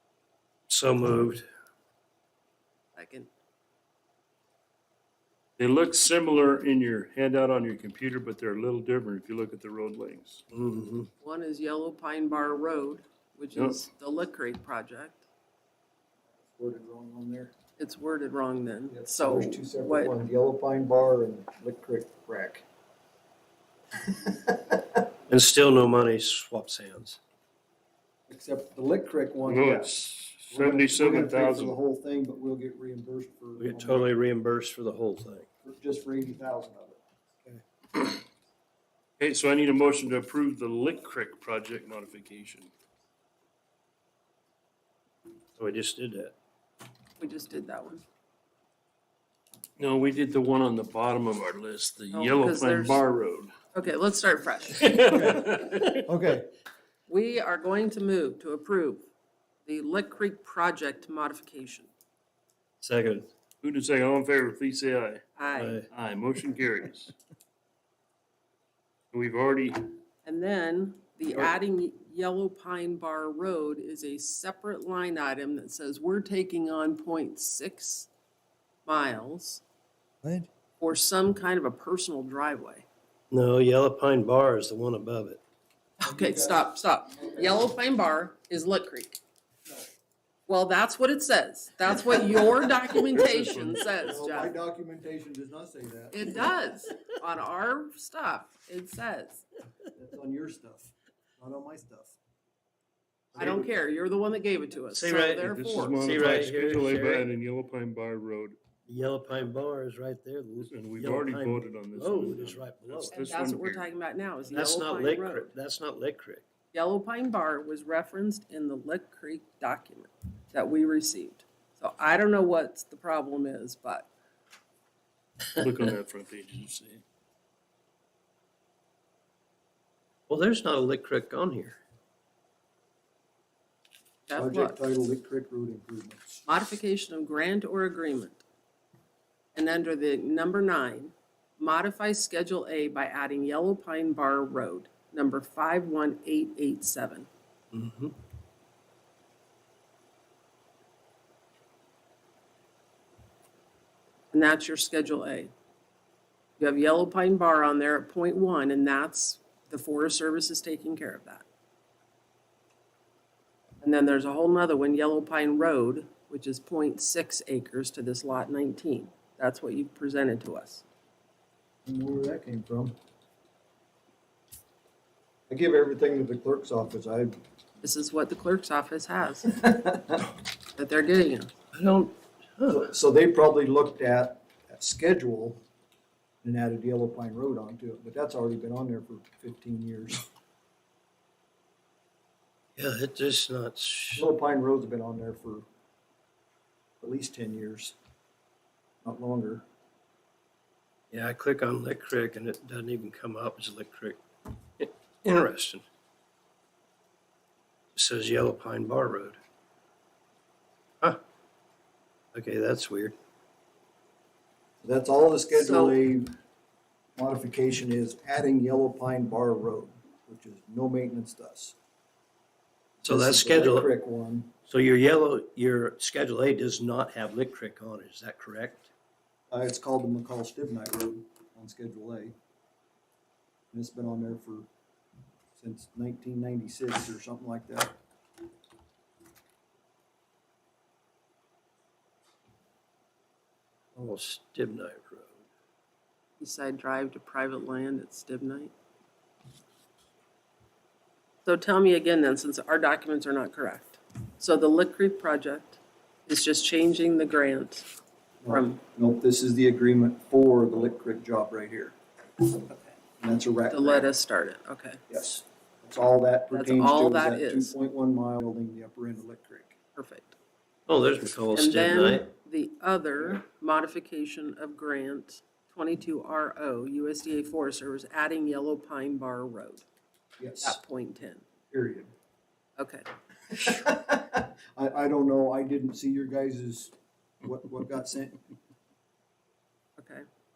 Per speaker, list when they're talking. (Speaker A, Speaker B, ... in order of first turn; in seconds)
Speaker A: 0.7-1.4, 10.5-11.1, 25.3-27.2, 33.6-35.5, 45.6-46.3, 62.8-63.3, 65.5-65.9, 83.3-85.4, 103.3-103.6, 104.9-107.3, 108.9-113.2, 114.5-116.4, 130.3-131.8, 147.7-148.1, 181.7-182.9, 192.8-194.3, 201.1-204.2, 204.8-205.8, 207.9-209.4, 212.3-213.1, 215.5-216.0, 223.1-223.9, 224.7-228.9, 243.9-245.3, 270.9-272.3
Speaker B: 3.0-3.3, 11.2-15.2, 17.8-20.2, 47.2-48.0, 52.1-53.0, 53.7-55.2, 57.1-59.1, 59.6-61.9, 65.3-65.8, 70.2-78.1, 78.8-79.6, 80.8-82.9, 86.0-89.2, 90.5-94.5, 96.1-99.4, 103.3-106.0, 113.1-115.5, 116.7-124.1, 134.3-134.8, 136.4-138.4, 139.5-147.3, 154.3-155.5, 156.6-161.4, 163.8-170.8, 177.8-179.5, 180.7-181.5, 246.4-248.7, 251.4-257.9, 258.5-258.8, 263.7-265.0, 266.5-267.7, 269.9-270.4, 271.5-279.8, 280.6-281.4, 282.8-283.1, 290.0-290.2
Speaker C: 5.6-10.4, 13.5-13.8, 29.4-31.8, 39.2-42.7, 49.8-53.5, 54.8-56.0, 63.6-65.2, 65.9-67.1, 69.1-69.9, 93.1-93.9, 105.3-108.6, 110.6-113.9, 125.6-127.0
Speaker D: 16.4-17.5, 18.9-22.6, 24.1-24.8, 28.3-34.1, 35.6-37.6, 55.2-56.5, 86.0-86.7, 94.0-96.5, 99.9-102.2, 134.3-136.4, 171.8-172.9, 175.5-177.4, 179.5-180.2, 182.7-185.6, 186.4-190.2, 194.2-195.6, 197.0-197.9, 199.0-199.7, 214.8-216.3, 217.2-221.8, 223.0-224.5, 229.5-232.3, 233.7-234.7, 235.6-237.9, 258.4-262.0, 263.2-264.1, 265.1-269.7, 280.4-280.8, 281.7-282.1, 283.5-288.4